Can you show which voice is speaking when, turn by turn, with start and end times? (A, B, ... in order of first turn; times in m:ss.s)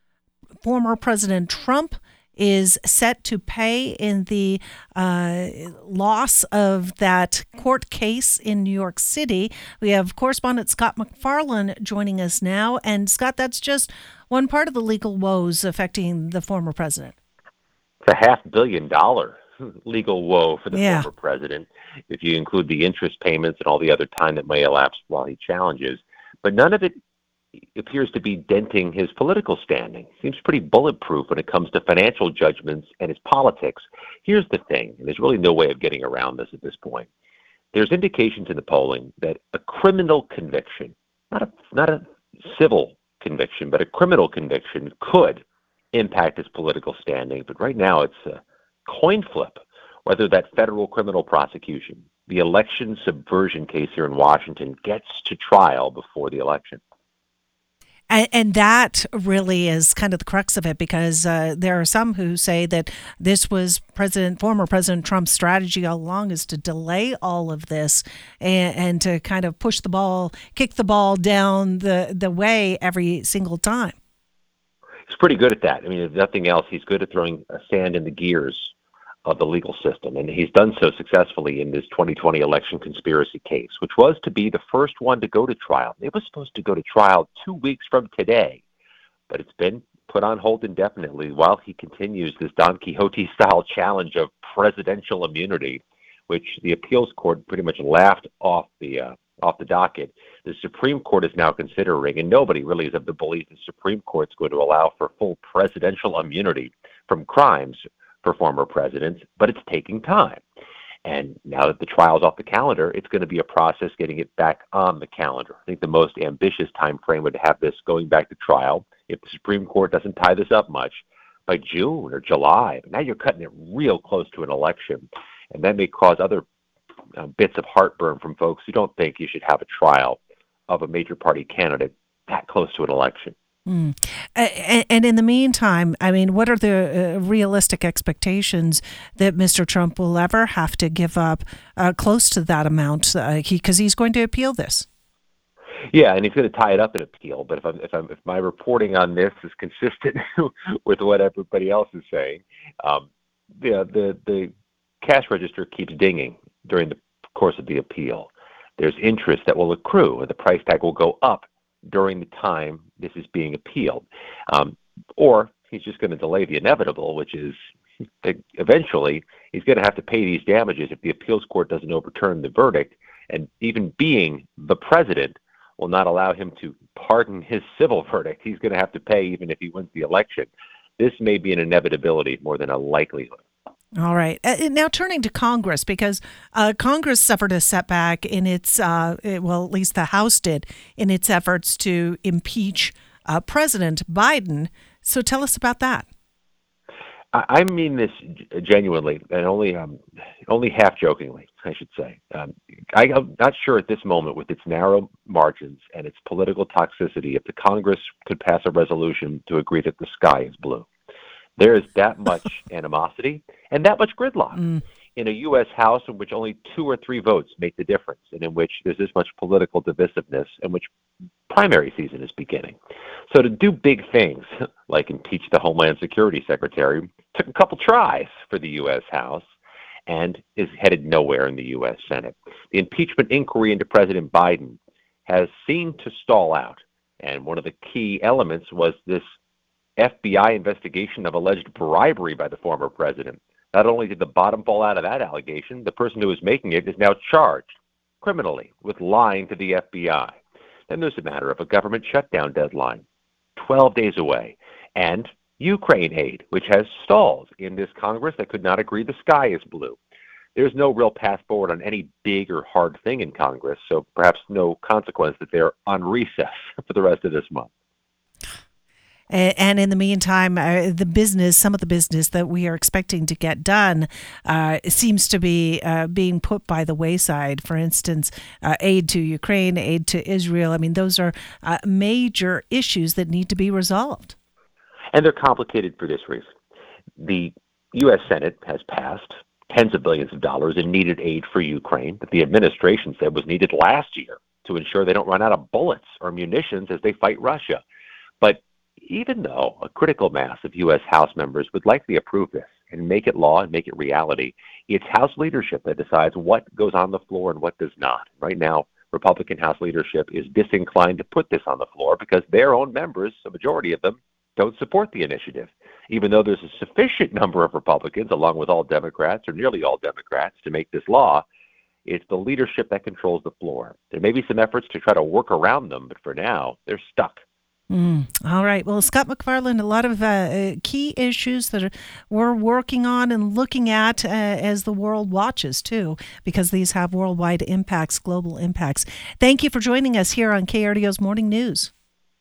0:00.6-0:17.2 A
0:18.0-0:27.0 B
0:20.7-0:21.1 A
0:27.8-0:37.1 B
0:37.7-0:56.8 B
0:58.1-1:14.0 A
1:15.1-1:18.7 B
1:19.2-1:28.6 B
1:29.3-1:50.4 B
1:51.0-2:06.4 B
2:07.2-2:13.4 B
2:13.7-2:24.9 A
2:25.9-2:33.1 B
2:33.6-2:47.6 B
2:48.2-3:03.4 B
3:04.0-3:16.1 A
3:17.3-3:30.9 B
3:31.6-3:34.6 B
3:35.2-3:40.9 B
3:41.5-3:42.8 B
3:43.3-3:49.5 B
3:50.1-3:59.2 B
4:00.0-4:07.7 B
4:08.2-4:13.0 B
4:13.6-4:20.0 B
4:20.6-4:27.7 B
4:29.3-4:44.4 A
4:45.1-4:46.5 B
4:47.2-4:57.8 B
4:58.4-5:21.4 B
5:22.0-5:27.4 B
5:27.9-5:41.9 A